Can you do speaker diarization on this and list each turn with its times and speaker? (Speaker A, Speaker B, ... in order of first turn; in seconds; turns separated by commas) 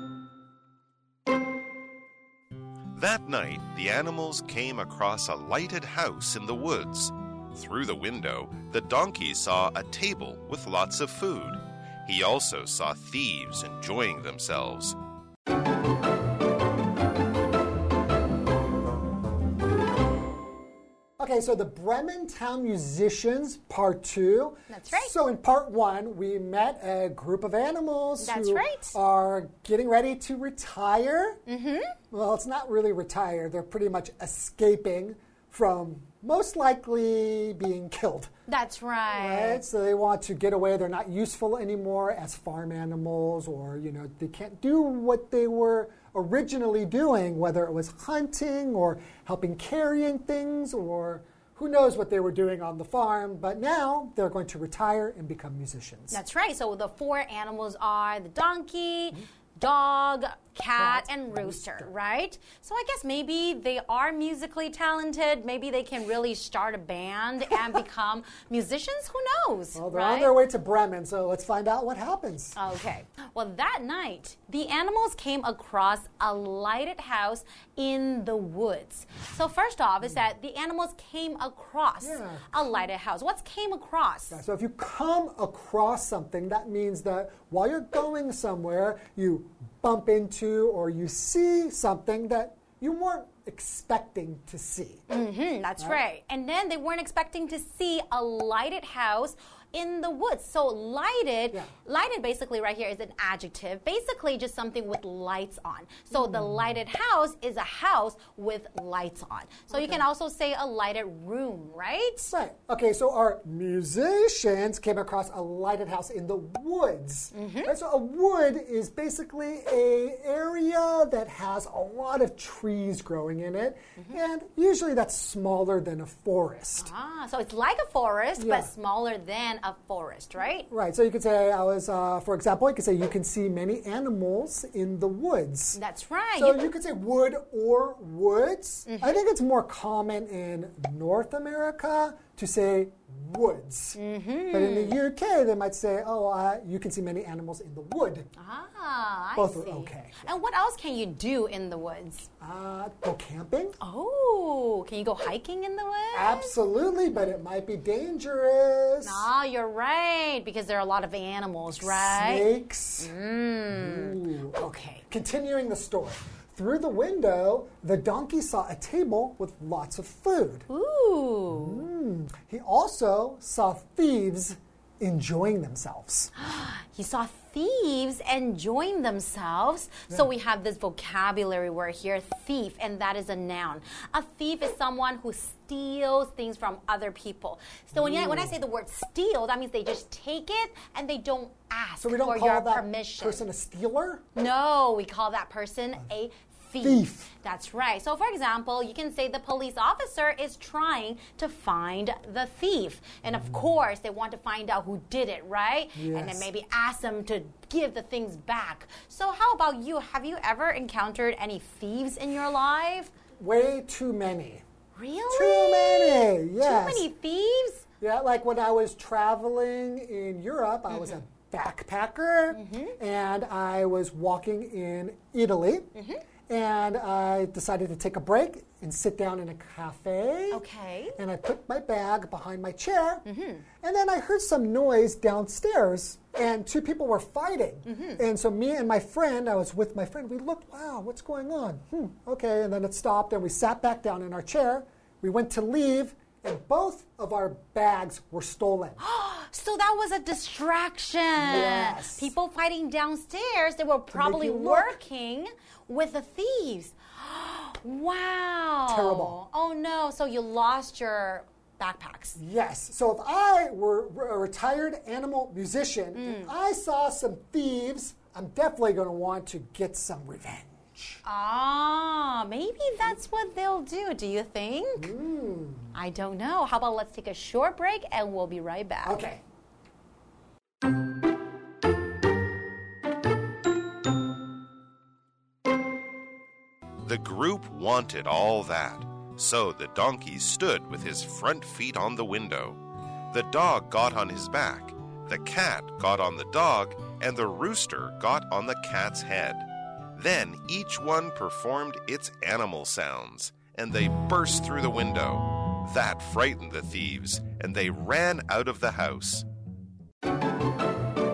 Speaker A: 2.9-15.0, Speaker B: 21.2-31.4, Speaker C: 24.7-25.1, Speaker C: 28.2-29.0, Speaker C: 31.5-31.9, Speaker B: 32.1-38.3, Speaker C: 38.5-39.6, Speaker B: 39.1-56.2, Speaker C: 56.1-70.3, Speaker B: 60.8-61.9, Speaker B: 69.7-72.6, Speaker C: 72.5-84.4, Speaker B: 82.0-82.8, Speaker B: 84.3-95.0, Speaker C: 95.1-112.2, Speaker B: 106.1-106.6, Speaker B: 109.7-110.0, Speaker B: 112.2-126.9, Speaker C: 117.3-117.7, Speaker C: 126.8-130.7, Speaker B: 128.4-128.7, Speaker B: 130.7-135.8, Speaker C: 135.7-136.7, Speaker B: 136.4-144.0, Speaker C: 138.9-139.2, Speaker C: 143.9-145.0, Speaker B: 144.5-148.3, Speaker C: 148.4-152.3, Speaker B: 149.4-150.3, Speaker B: 152.4-153.8, Speaker C: 153.8-156.6, Speaker B: 156.1-159.3, Speaker C: 157.1-157.4, Speaker C: 159.0-165.0, Speaker B: 161.8-163.1, Speaker B: 163.7-164.6, Speaker B: 165.1-170.7, Speaker C: 170.7-171.8, Speaker B: 171.5-176.3, Speaker C: 176.4-193.4, Speaker B: 187.9-188.6, Speaker B: 192.0-194.2, Speaker C: 194.3-213.1, Speaker B: 196.8-197.3, Speaker B: 205.9-206.5, Speaker B: 213.4-214.6, Speaker C: 214.9-217.8, Speaker B: 215.3-217.1, Speaker B: 218.0-225.9, Speaker C: 220.9-221.2, Speaker C: 222.5-223.0, Speaker C: 225.9-226.2, Speaker B: 226.5-230.6, Speaker C: 230.5-231.2, Speaker B: 231.2-233.2, Speaker C: 233.2-233.7, Speaker B: 233.8-249.0, Speaker C: 237.9-238.2, Speaker C: 249.0-262.4, Speaker B: 251.4-252.3, Speaker B: 254.1-255.0, Speaker B: 258.9-259.4, Speaker B: 262.4-271.2, Speaker C: 266.2-266.5, Speaker C: 271.2-275.1, Speaker B: 275.0-275.9, Speaker C: 275.9-279.2, Speaker B: 279.0-279.4, Speaker A: 287.0-292.8, Speaker A: 293.3-309.4